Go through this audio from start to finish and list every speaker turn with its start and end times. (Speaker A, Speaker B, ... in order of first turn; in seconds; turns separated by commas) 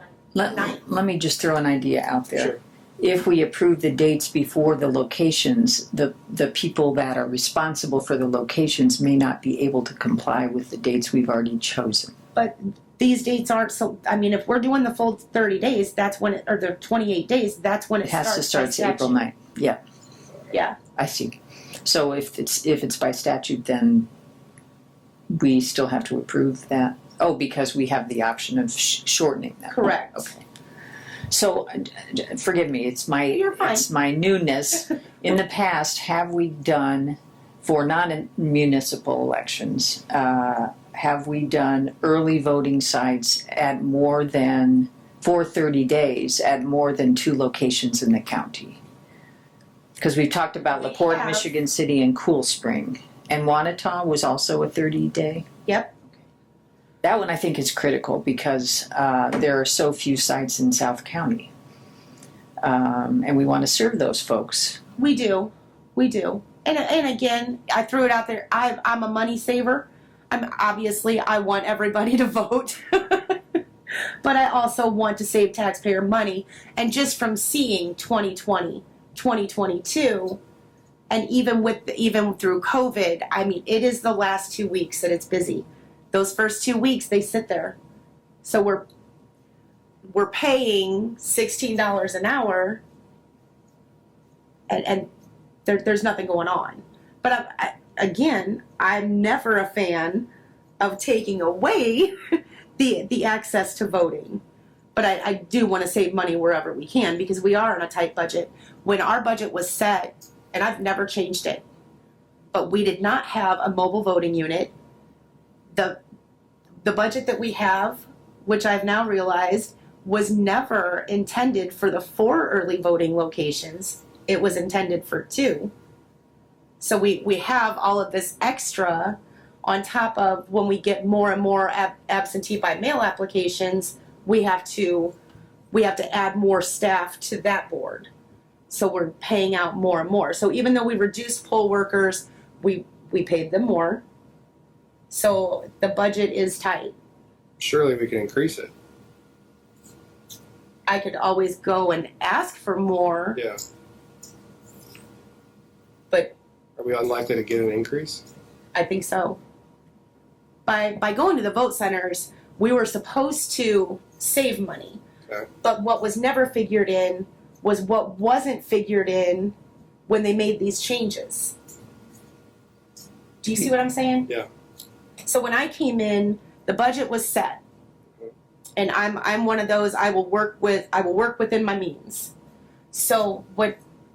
Speaker A: 0.3-12.1, Speaker B: 12.3-19.2, Speaker A: 18.0-19.8, Speaker A: 20.9-24.1, Speaker A: 25.3-30.4, Speaker B: 29.7-30.4, Speaker A: 31.3-48.8, Speaker B: 33.3-33.8, Speaker A: 50.0-55.5, Speaker B: 50.7-51.5, Speaker B: 55.7-55.9, Speaker A: 57.0-61.5, Speaker A: 62.6-64.8, Speaker B: 65.0-73.4, Speaker B: 74.2-80.4, Speaker B: 81.1-87.8, Speaker B: 88.4-88.9, Speaker B: 90.0-92.8, Speaker B: 94.7-95.1, Speaker B: 95.6-100.2, Speaker B: 100.8-102.2, Speaker B: 102.8-104.4, Speaker B: 104.9-111.6, Speaker B: 112.5-114.7, Speaker B: 115.7-116.0, Speaker B: 116.8-125.7, Speaker B: 126.8-135.1, Speaker B: 135.7-138.1, Speaker B: 138.7-144.0, Speaker B: 145.1-146.9, Speaker C: 147.6-148.7, Speaker B: 150.9-153.4, Speaker C: 156.8-158.2, Speaker B: 158.7-159.4, Speaker B: 160.7-165.0, Speaker B: 165.6-169.5, Speaker B: 170.1-171.5, Speaker B: 173.4-174.3, Speaker B: 175.2-177.6, Speaker B: 178.8-182.3, Speaker B: 182.9-183.8